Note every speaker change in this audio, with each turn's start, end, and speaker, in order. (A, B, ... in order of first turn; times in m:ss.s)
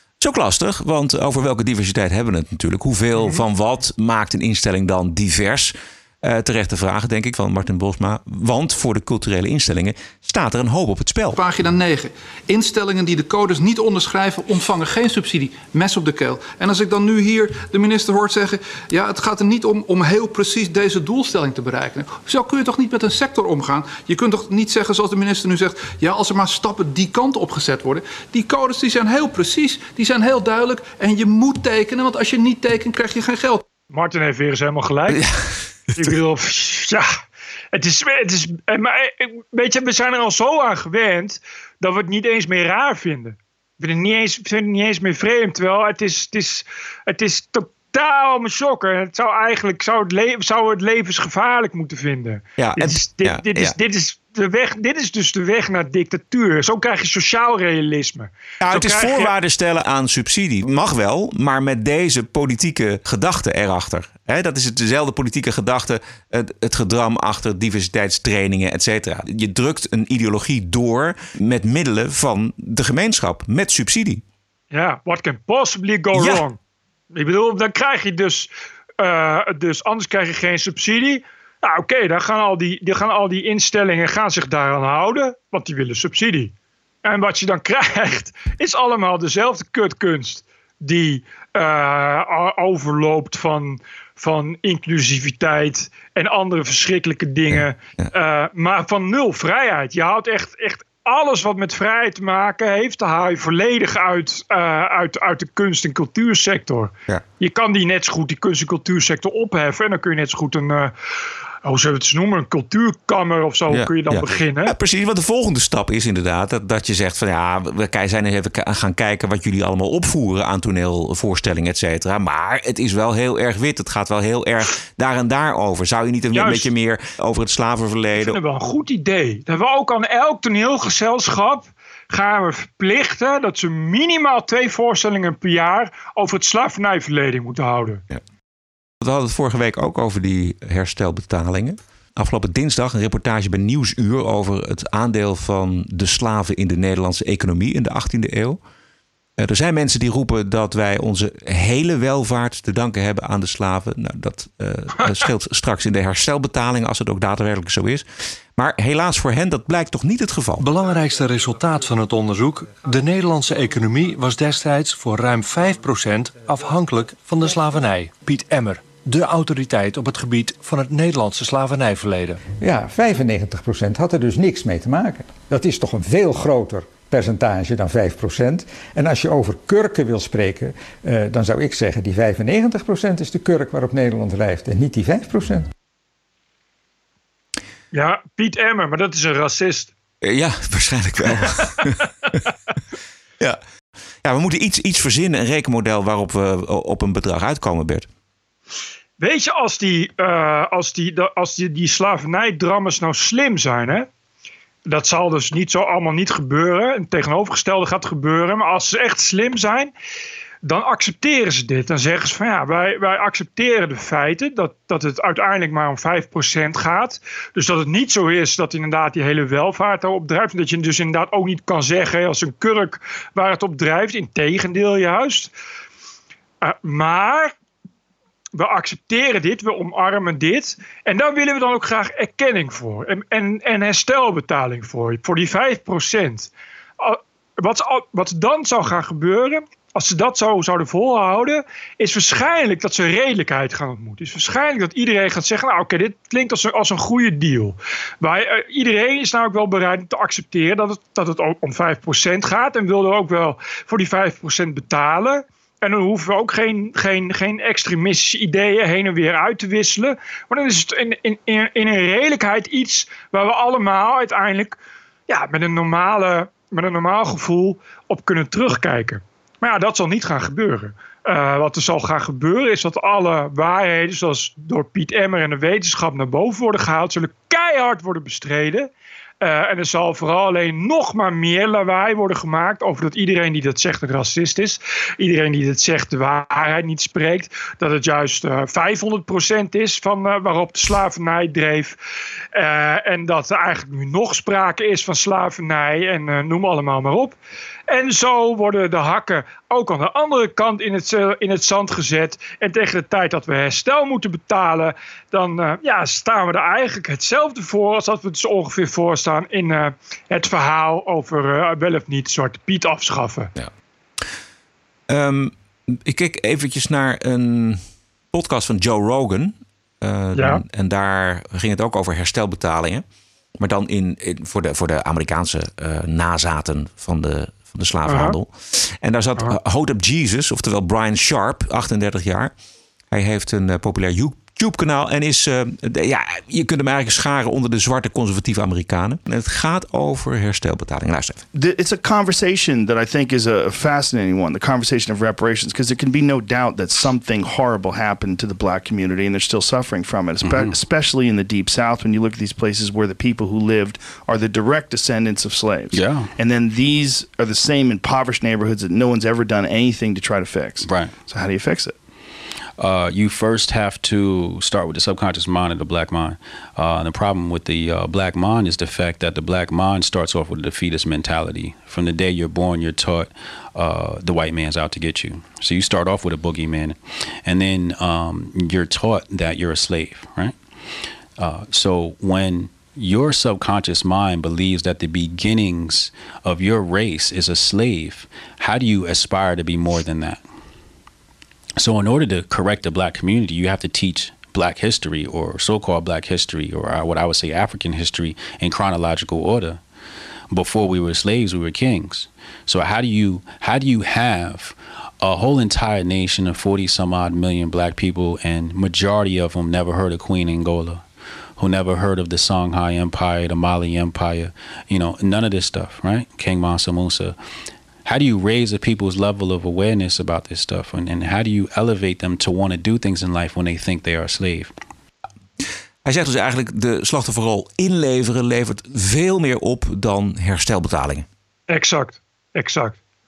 0:00.2-0:11.4 A
0:11.3-0:33.7 B
0:33.9-0:35.2 C
0:35.1-0:35.4 A
0:36.0-0:37.1 C
0:37.7-0:59.3 C
0:52.6-0:53.8 A
0:58.6-1:14.2 A
1:14.7-1:16.6 C
1:16.1-1:16.4 A
1:17.1-1:26.5 C
1:27.0-1:50.9 C
1:37.5-1:38.1 A
1:51.6-1:54.8 C
1:53.7-2:08.4 A
2:06.3-2:06.7 C
2:08.2-2:18.0 C
2:19.0-2:28.6 A
2:29.4-2:38.0 A
2:38.6-2:40.7 A
2:40.6-2:52.4 D
2:52.6-3:05.7 E
3:07.9-3:09.9 C
3:10.2-3:11.9 A
3:14.2-3:18.1 A
3:19.2-3:24.1 C
3:24.9-3:29.9 C
3:30.6-3:45.5 C
3:46.6-3:47.5 C
3:48.6-4:24.8 C
4:25.3-4:38.9 C
4:39.4-4:52.0 C
4:52.5-4:57.4 C
4:57.9-5:13.5 C
5:15.1-5:23.0 A
5:20.4-5:20.6 C
5:23.6-5:32.5 A
5:28.1-5:28.4 C
5:33.1-5:41.4 A
5:41.5-6:02.0 F
5:50.4-5:50.8 G
5:55.9-5:56.3 G
6:00.8-6:01.2 G
6:02.8-6:20.6 G
6:21.4-6:30.4 G
6:31.8-6:39.8 G
6:40.5-6:51.0 G
6:51.6-6:57.4 G
6:58.0-7:04.7 G
7:06.0-7:11.3 A
7:11.7-7:13.0 C